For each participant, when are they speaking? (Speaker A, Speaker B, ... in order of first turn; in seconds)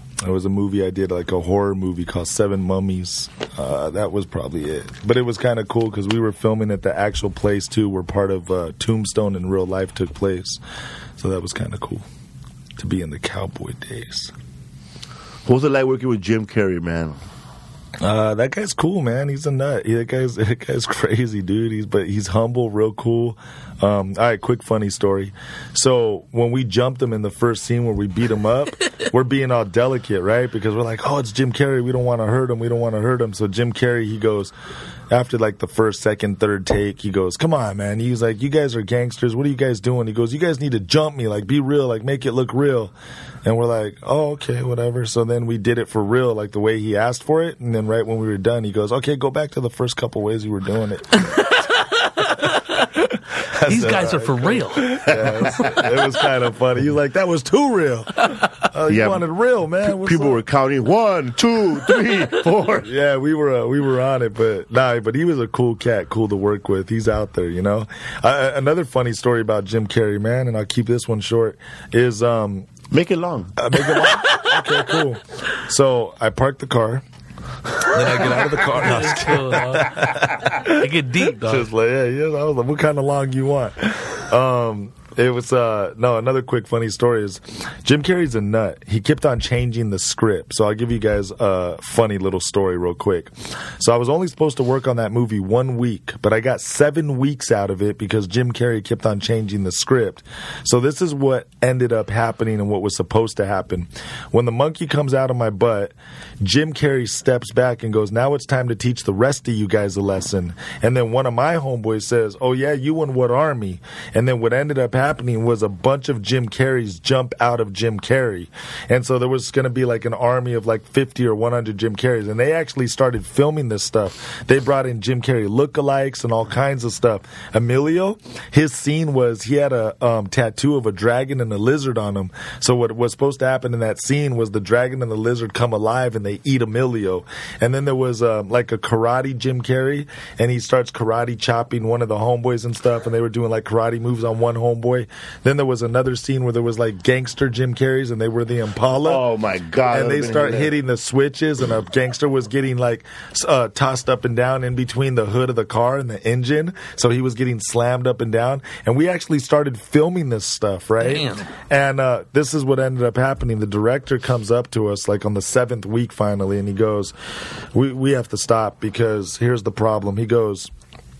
Speaker A: 0.2-10.6, 11.2-12.0, 12.8-14.3, 18.0-34.5, 35.1-42.9, 43.4-51.4, 53.0-60.4, 62.8-72.7, 73.6-77.0, 77.8-80.9, 81.4-149.2, 149.9-167.1, 167.7-170.7
Speaker B: 15.4-17.2, 55.0-55.9, 58.9-59.2, 59.8-62.9, 72.9-73.5, 149.0-150.7
Speaker C: 53.6-55.0, 78.2-81.7, 161.0-161.5